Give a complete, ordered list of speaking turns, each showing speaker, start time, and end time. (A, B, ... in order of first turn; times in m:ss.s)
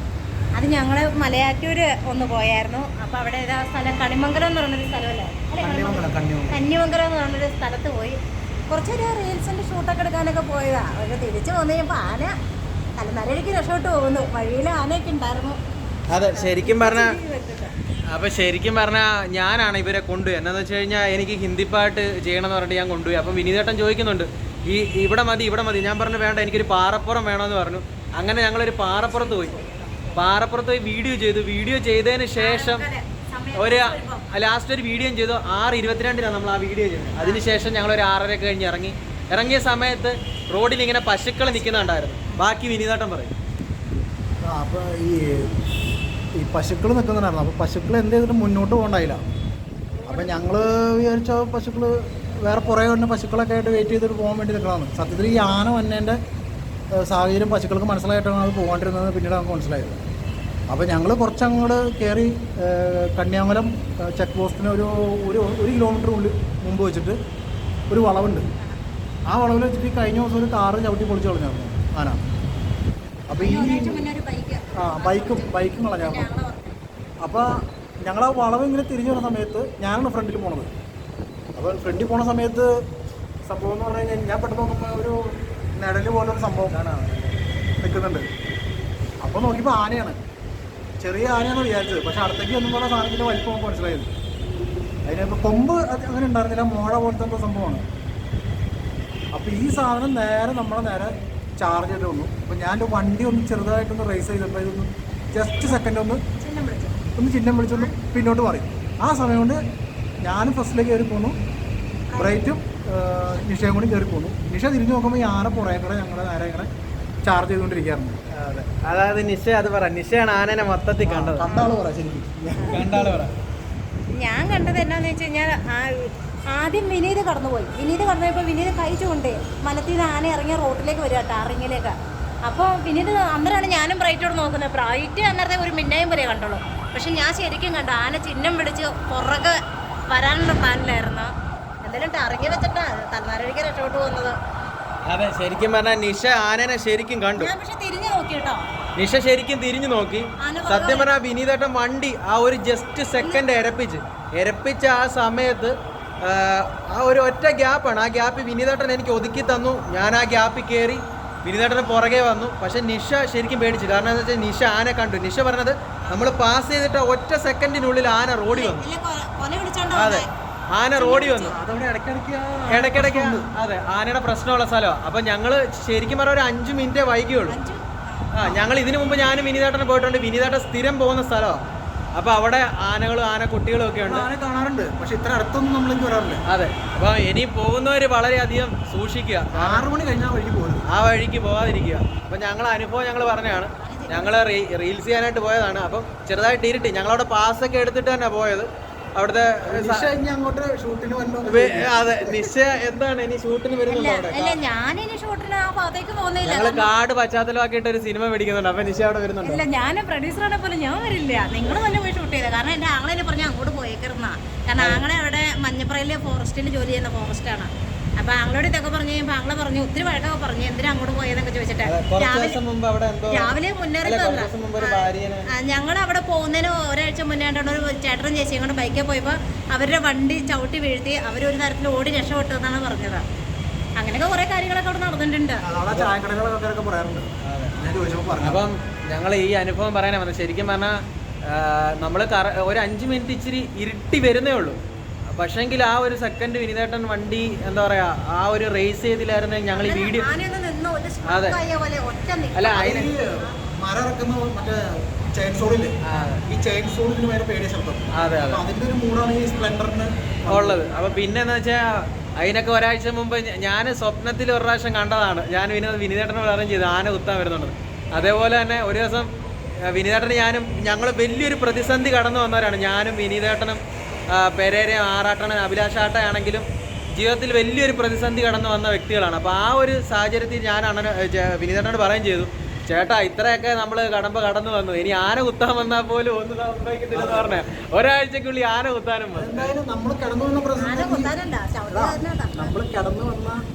0:00.6-0:12.3 A
0:05.6-0:06.6 B
0:13.0-0:15.6 A
0:16.1-0:17.2 C
0:16.3-0:17.7 A
0:18.1-0:29.5 C
0:28.9-0:30.2 A
0:30.1-0:32.9 C
0:32.4-0:34.2 A
0:33.5-0:43.3 C
0:37.2-0:37.5 A
0:41.4-0:42.0 A
0:44.4-0:45.5 B
0:46.4-0:49.2 B
0:50.0-0:50.5 A
0:50.0-0:56.2 B
0:56.9-1:00.0 B
1:00.7-1:07.2 B
1:07.9-1:08.4 B
1:09.3-1:12.2 B
1:13.3-1:14.0 B
1:13.4-1:16.8 A
1:14.7-1:16.3 B
1:17.2-1:20.7 B
1:21.6-1:22.8 B
1:23.4-1:26.8 B
1:26.7-1:27.4 C
1:27.8-1:28.3 B
1:29.2-1:30.2 B
1:31.0-1:34.1 B
1:35.0-1:37.8 B
1:39.3-1:46.2 B
1:46.4-1:47.0 A
1:47.2-1:49.6 B
1:50.2-1:51.3 B
1:52.1-1:52.5 A
1:52.2-1:56.7 B
1:57.2-1:58.7 B
1:58.8-2:01.4 C
2:01.0-2:03.2 B
2:01.4-2:01.8 A
2:02.6-2:02.8 A
2:02.7-2:03.3 C
2:04.1-2:19.6 A
2:20.1-2:21.3 A
2:21.8-2:24.4 A
2:25.1-2:27.5 C
2:27.3-2:28.6 A
2:29.0-2:48.8 C
2:30.4-2:31.1 A
2:33.2-2:33.5 A
2:48.5-2:50.3 A
2:49.9-2:51.5 C
2:50.9-2:51.5 A
2:51.5-2:53.5 B
2:52.7-2:57.6 C
2:57.5-2:58.3 A
2:58.3-3:01.6 C
3:02.1-3:04.3 C
3:04.0-3:06.4 B
3:06.5-3:09.9 C
3:09.5-3:10.8 B
3:10.9-3:20.1 C
3:13.8-3:14.4 A
3:19.6-3:22.5 B
3:21.4-3:24.6 C
3:23.9-3:26.9 A
3:26.4-3:29.6 C
3:29.4-3:42.6 A
3:34.8-3:35.0 C
3:41.8-3:45.5 C
3:43.3-3:53.2 A
3:54.0-3:55.6 A
3:55.6-3:58.6 B
3:57.4-3:57.8 C
3:58.4-4:04.8 C
4:05.3-4:10.3 C
4:09.7-4:13.5 A
4:11.2-4:11.6 C
4:12.5-4:13.1 C
4:12.7-4:20.9 B
4:16.0-4:16.4 C
4:18.1-4:18.6 C
4:20.5-4:29.3 C
4:29.8-4:49.7 C
4:47.1-4:47.6 B
4:49.3-4:51.3 B
4:50.8-4:52.7 A
4:51.9-4:53.6 B